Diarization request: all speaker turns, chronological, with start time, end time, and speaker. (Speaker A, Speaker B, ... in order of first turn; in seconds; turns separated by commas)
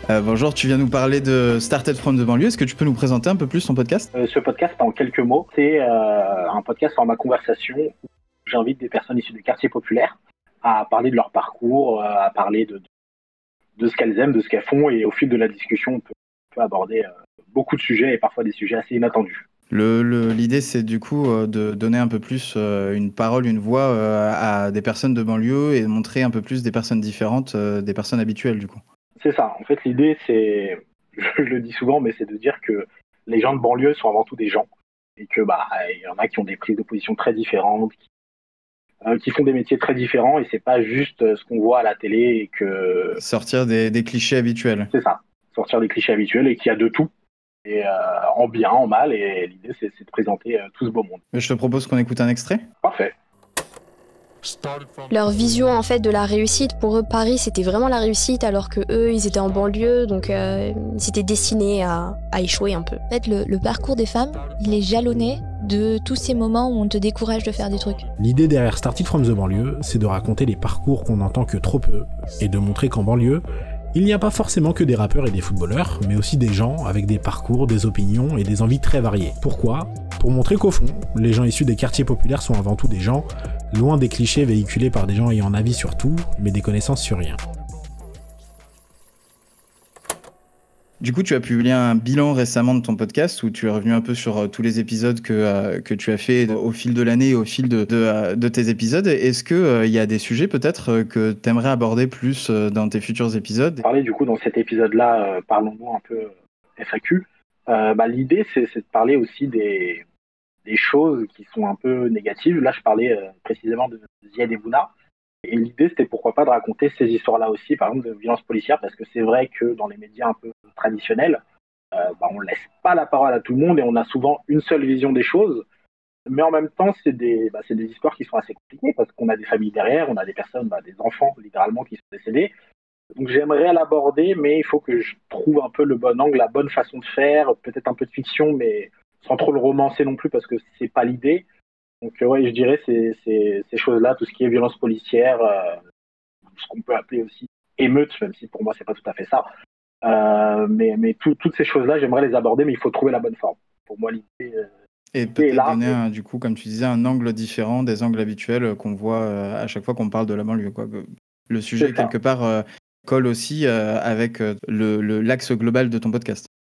Speaker A: 0.1-4.1, Speaker B: 4.1-7.9, Speaker B: 8.5-12.8, Speaker B: 13.8-19.4, Speaker A: 19.7-28.8, Speaker B: 29.2-34.7, Speaker B: 35.2-38.0, Speaker B: 39.0-43.2, Speaker A: 43.2-44.9, Speaker B: 44.9-47.1, Speaker B: 47.6-51.2, Speaker A: 51.3-52.6, Speaker B: 52.8-53.1, Speaker C: 55.1-63.0, Speaker D: 63.1-68.1, Speaker E: 68.2-87.4, Speaker A: 91.0-103.8, Speaker B: 103.8-110.0, Speaker B: 110.7-114.9, Speaker B: 115.5-121.4, Speaker B: 122.0-125.7, Speaker B: 126.3-132.5, Speaker B: 133.2-141.4, Speaker B: 142.0-145.8, Speaker B: 146.5-149.5, Speaker B: 150.1-154.7, Speaker A: 155.1-166.5, Speaker B: 155.4-156.0, Speaker B: 161.8-162.1